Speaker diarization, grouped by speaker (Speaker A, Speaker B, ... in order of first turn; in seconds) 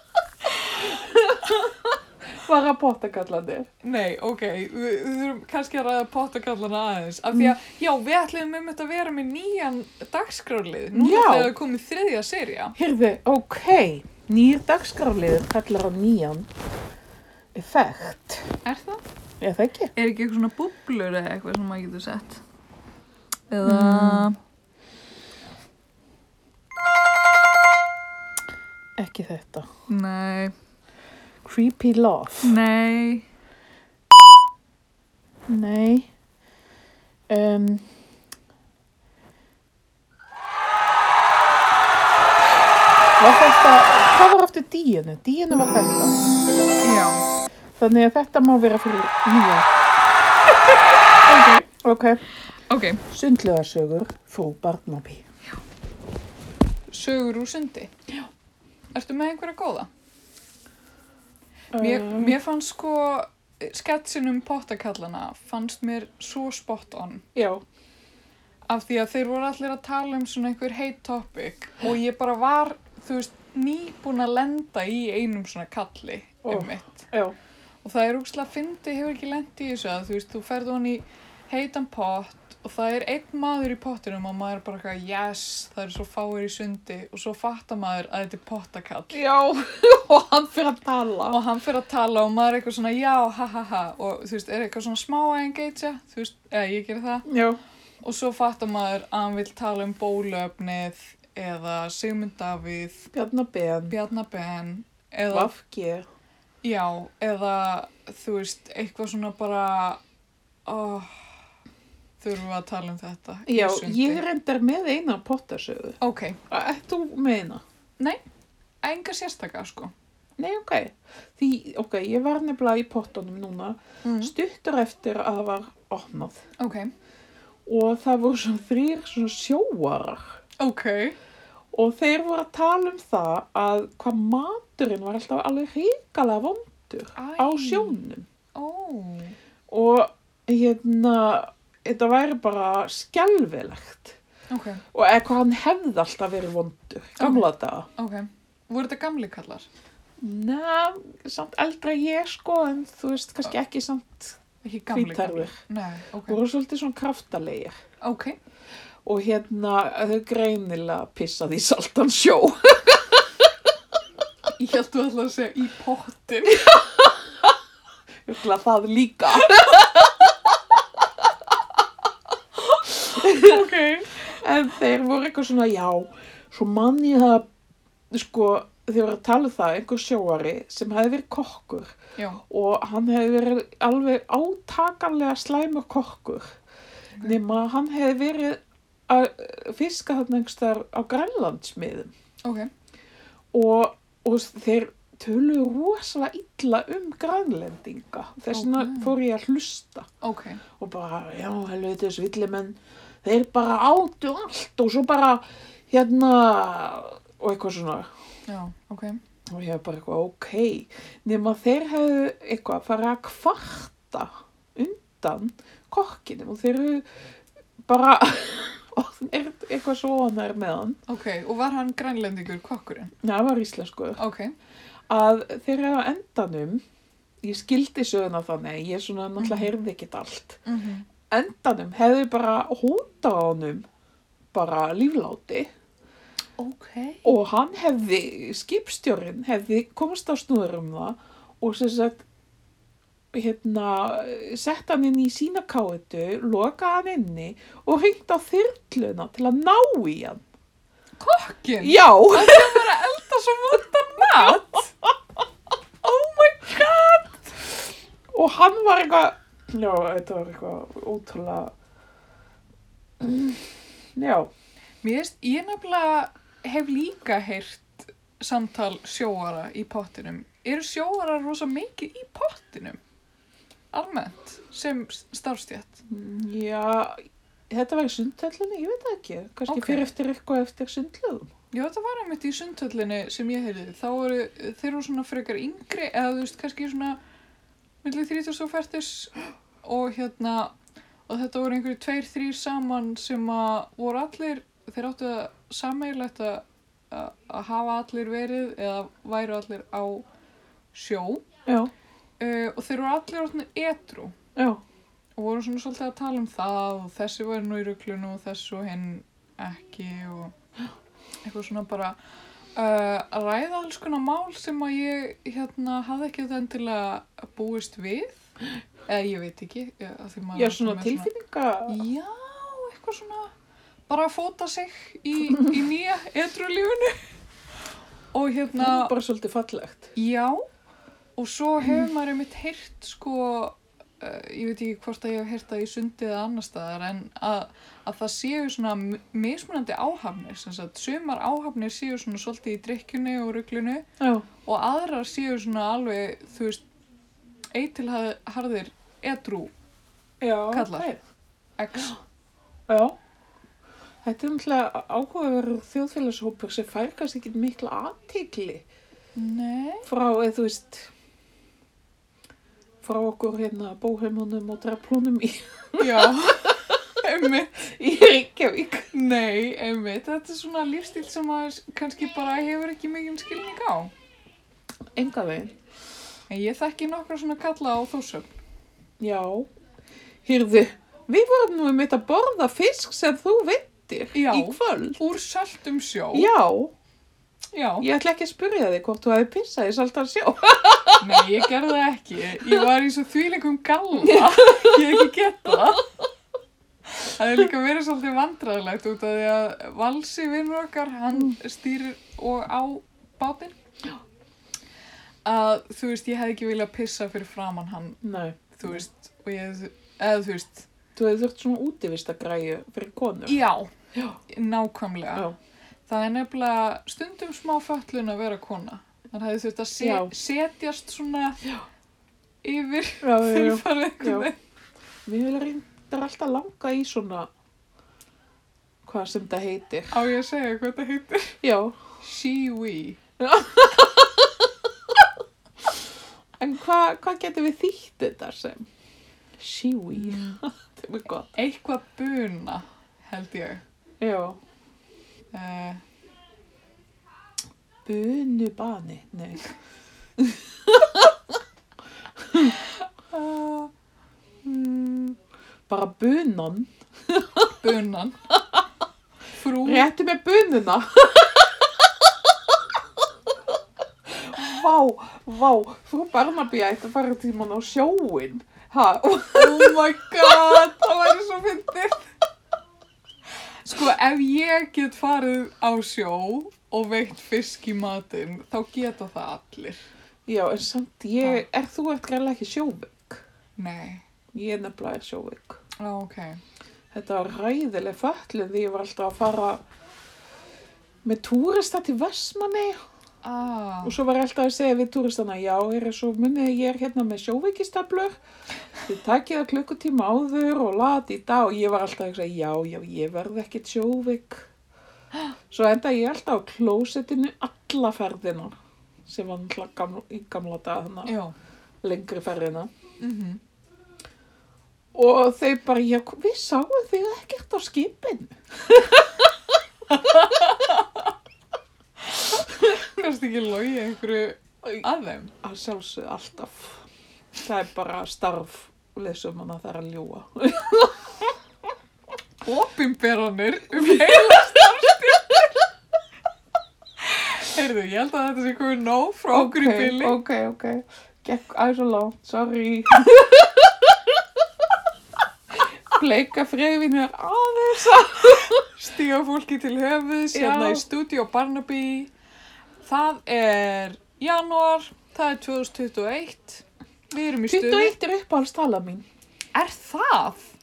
Speaker A: 0.5-3.7, 10.9-11.5, 12.8-16.5, 17.5-18.5, 19.4-19.9, 23.6-24.3, 29.0-29.7, 31.4-32.5, 35.5-36.1, 37.3-37.9, 43.2-46.3, 47.8-49.7, 51.2-52.2, 53.1-55.2, 61.7-62.4, 67.3-67.6, 76.5-77.3, 89.1-91.4, 97.2-97.6, 103.1-103.9, 105.3-106.1, 113.5-116.0, 116.5-117.6, 120.4-126.4, 127.7-130.4, 131.7-138.3, 139.7-144.2, 144.9-147.9, 150.2-154.4, 154.9-155.6, 156.3-157.8, 159.0-163.7, 166.6-167.5, 168.2-171.1, 172.8-177.4, 178.1-186.6, 187.2-192.1, 193.5-200.1, 200.8-208.1, 209.5-217.2, 217.8-221.0, 223.2-224.2, 225.1-226.8, 227.4-230.6, 231.3-233.8, 234.5-235.7, 237.2-242.2, 243.3-250.4, 251.8-252.9, 254.2-255.1, 258.3-261.7, 263.2-264.5, 276.1-281.5, 301.6-301.9, 304.6-304.8, 320.5-322.0, 328.8-330.1, 344.2-344.4, 350.4-351.2, 352.9-353.1, 354.2-358.9, 360.0-361.1, 363.0-366.8, 367.8-369.1, 375.1-375.7, 379.2-379.7, 380.4-385.2, 386.3-386.9, 388.0-391.5, 394.2-395.3, 408.2-409.0, 411.1-413.6, 420.0-420.3, 423.2-424.5, 425.2-427.5, 429.0-430.2, 431.6-432.0, 433.4-435.2, 436.6-438.9, 439.6-441.5, 444.2-444.6, 448.0-449.7, 450.4-451.3, 452.4-453.9, 454.6-455.4, 455.9-457.7, 459.8-462.3, 464.3-470.8, 480.5-483.4, 484.5-485.8, 487.1-489.8, 491.2-493.0, 494.0-498.4, 499.0-504.7, 505.7-511.3, 512.0-512.9, 515.1-519.5, 520.1-520.5, 525.6-527.0, 527.6-531.5, 534.0-534.8, 539.5-544.4, 546.1-548.9, 550.5-551.1, 557.7-559.2
Speaker B: 3.8-12.8, 18.6-19.0, 19.9-22.4, 23.5-24.4, 29.9-30.5, 32.4-33.3, 46.8-47.3, 52.7-53.0, 56.9-57.9, 58.9-59.9, 61.8-67.2, 68.7-77.1, 77.8-89.2, 91.3-97.2, 98.0-103.1, 103.9-105.5, 106.6-110.0, 110.7-111.2, 112.2-114.2, 116.0-116.4, 118.8-119.9, 124.0-124.3, 126.6-126.9, 130.6-131.2, 137.2-137.9, 138.5-139.4, 144.5-144.8, 147.2-149.7, 154.6-156.4, 158.0-158.4, 164.6-166.7, 173.4-173.7, 192.4-192.7, 198.5-199.1, 200.2-200.6, 208.5-209.2, 221.1-223.1, 224.2-224.5, 229.4-229.7, 230.7-231.1, 236.6-237.2, 251.2-254.9, 256.0-257.6, 265.0-273.0, 273.9-276.0, 279.7-280.1, 281.7-287.2, 288.0-290.7, 291.3-300.2, 300.9-301.4, 302.4-304.3, 305.4-310.5, 311.4-312.2, 312.8-318.5, 319.1-321.3, 321.9-323.5, 324.1-327.2, 328.3-329.1, 330.1-330.6, 331.4-344.1, 344.6-346.8, 347.7-349.7, 350.7-351.1, 351.8-352.2, 359.4-360.1, 366.0-367.8, 369.1-374.1, 376.5-378.6, 384.3-386.5, 387.7-388.1, 391.2-396.1, 397.1-403.8, 405.4-408.2, 408.7-410.9, 413.4-413.9, 414.5-415.5, 416.1-421.7, 422.6-424.6, 430.1-431.6, 432.2-433.2, 440.1-440.6, 441.5-443.8, 445.5-446.0, 457.7-458.4, 459.5-460.1, 469.5-472.3, 473.8-480.0, 483.8-484.2, 486.0-486.6, 493.4-494.2, 511.2-511.5, 513.2-513.6, 520.2-521.1, 522.3-525.5, 532.6-535.8, 537.2-540.4, 548.8-552.3, 553.0-558.1, 559.7-560.7